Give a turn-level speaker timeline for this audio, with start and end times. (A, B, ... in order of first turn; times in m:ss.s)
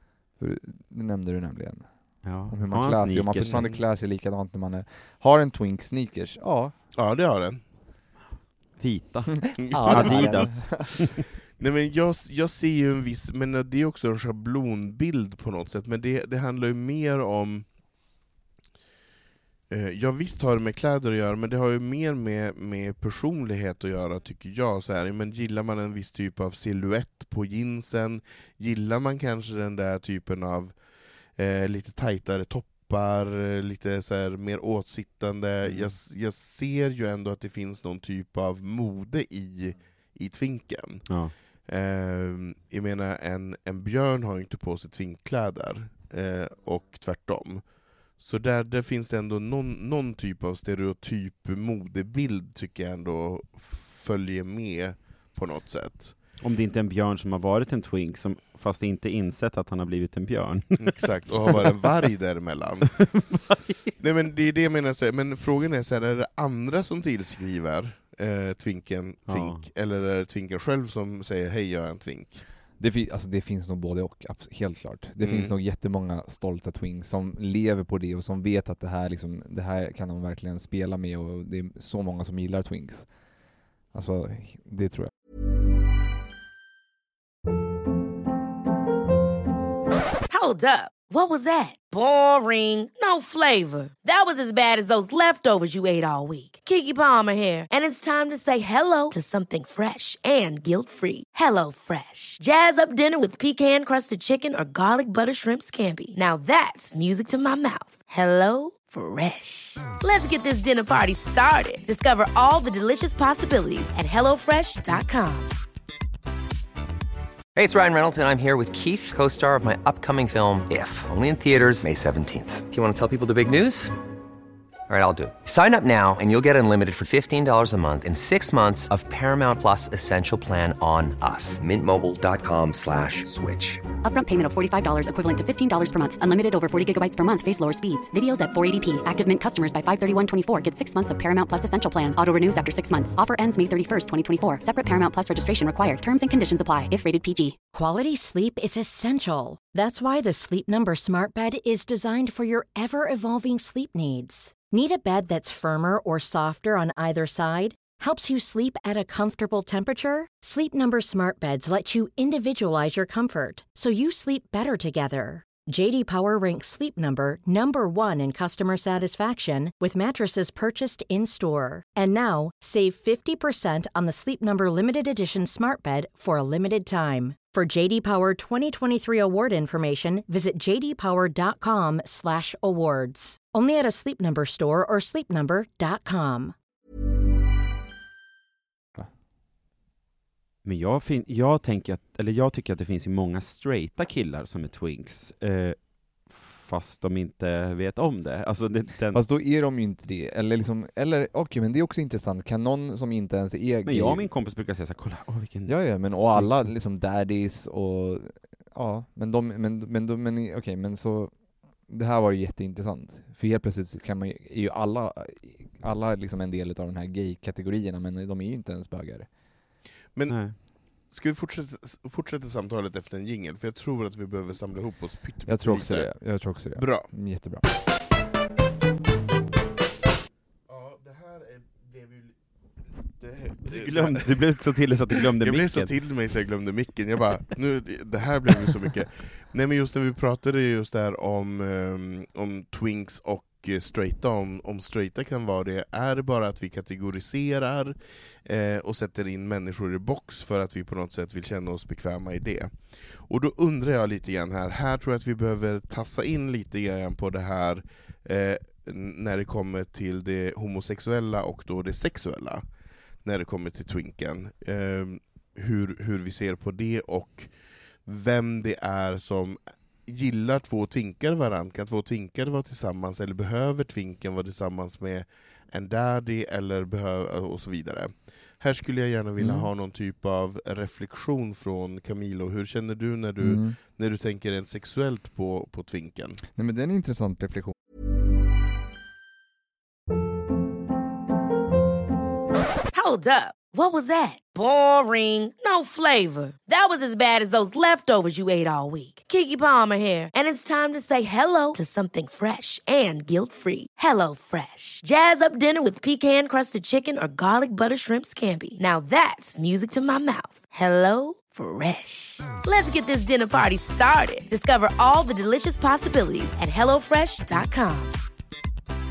0:00.4-0:06.7 A
0:02.2-0:03.7 B
0:03.4-0:03.8 C
0:06.9-0:07.6 C
0:08.8-0:11.2 B
0:09.5-0:11.1 A
0:09.7-0:11.0 C
0:11.6-0:17.7 C
0:19.7-0:56.2 C
0:35.6-0:35.9 B
0:41.1-0:41.3 B
0:56.4-1:01.9 B
1:00.8-1:03.3 C
1:03.0-1:03.9 B
1:04.0-1:12.4 C
1:09.3-1:09.6 B
1:12.8-1:23.2 A
1:15.2-1:15.5 C
1:23.9-1:25.1 A
1:30.3-1:55.5 D
1:57.5-2:03.9 E
2:04.9-2:13.9 E
2:14.0-2:27.6 F
2:27.7-3:06.5 G
3:10.6-3:19.2 B
3:19.1-3:24.3 A
3:23.8-3:26.7 B
3:25.6-3:39.4 A
3:40.1-3:47.1 C
3:40.3-3:40.6 B
3:45.5-3:47.6 A
3:50.7-3:52.4 C
3:53.1-3:54.3 C
3:53.6-3:55.9 B
3:55.4-4:46.4 C
4:39.4-4:39.7 A
4:43.4-4:43.8 A
4:46.5-4:47.7 A
4:52.9-5:18.2 D